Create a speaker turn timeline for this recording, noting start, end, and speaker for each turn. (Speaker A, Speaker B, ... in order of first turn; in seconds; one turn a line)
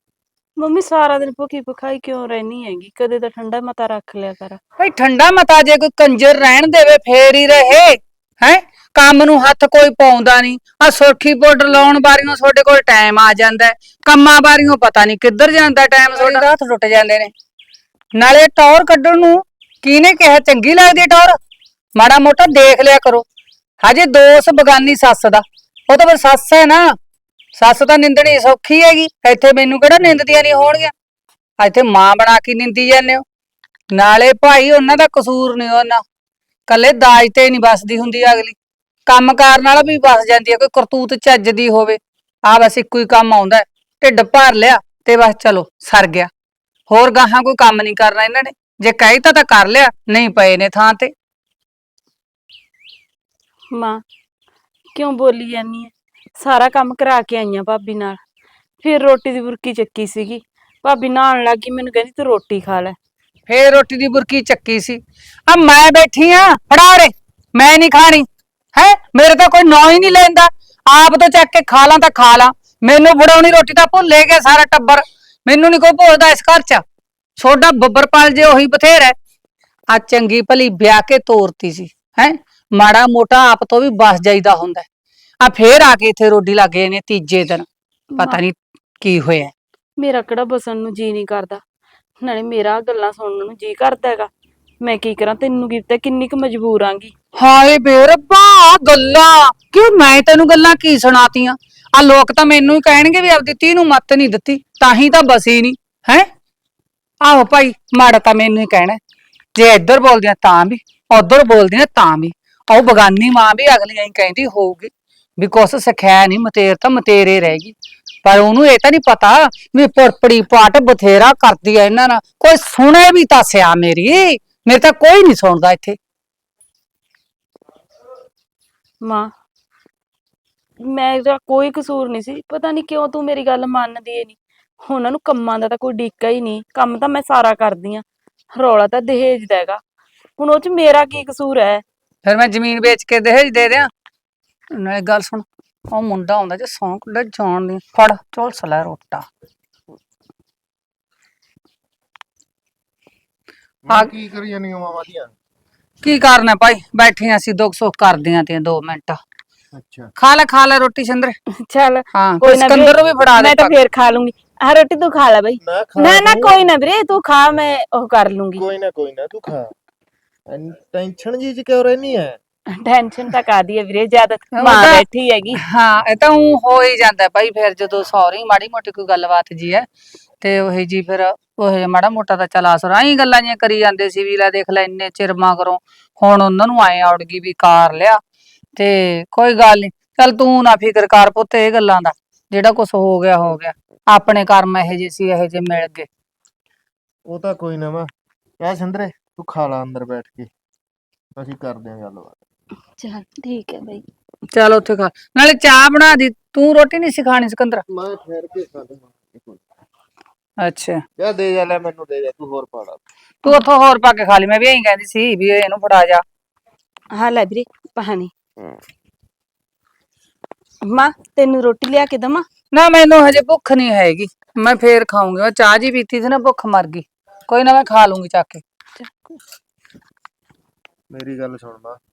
Speaker A: 0.6-4.6
Speaker B: 4.8-17.3
Speaker B: 18.1-21.4
Speaker B: 21.9-23.2
Speaker B: 23.8-26.9
Speaker B: 27.6-30.9
Speaker B: 31.6-33.2
Speaker B: 33.9-36.0
Speaker B: 36.7-38.5
Speaker B: 39.1-46.3
Speaker B: 46.9-51.1
Speaker A: 53.7-54.0
Speaker A: 54.9-58.2
Speaker A: 58.8-63.0
Speaker B: 63.5-76.8
Speaker B: 77.4-79.1
Speaker B: 79.9-84.8
Speaker B: 85.4-87.7
Speaker B: 88.2-89.5
Speaker A: 90.0-91.6
Speaker A: 92.2-94.3
Speaker A: 94.8-97.1
Speaker B: 97.4-106.3
Speaker B: 107.2-109.0
Speaker B: 109.5-126.0
Speaker A: 129.0-129.3
Speaker A: 130.8-138.0
Speaker A: 138.5-139.8
Speaker A: 140.4-141.8
Speaker B: 142.2-143.9
Speaker B: 144.7-149.2
Speaker C: 153.8-155.3
Speaker B: 156.0-159.2
Speaker C: 159.7-160.1
Speaker B: 160.2-161.3
Speaker A: 161.6-168.7
Speaker B: 162.1-163.7
Speaker C: 165.6-166.6
Speaker C: 168.6-169.7
Speaker C: 170.5-172.4
Speaker A: 172.7-175.6
Speaker B: 174.6-175.0
Speaker B: 175.6-179.8
Speaker B: 180.4-188.2
Speaker B: 188.8-196.1
Speaker C: 197.3-198.1
Speaker C: 198.6-200.5
Speaker C: 201.4-202.4
Speaker A: 203.0-204.1
Speaker B: 204.5-207.8
Speaker C: 207.9-209.6
Speaker B: 210.6-211.0
Speaker C: 211.2-213.0
Speaker B: 213.4-216.2
Speaker A: 217.1-218.3
Speaker A: 220.8-222.5
Speaker B: 222.7-228.6
Speaker C: 231.1-232.0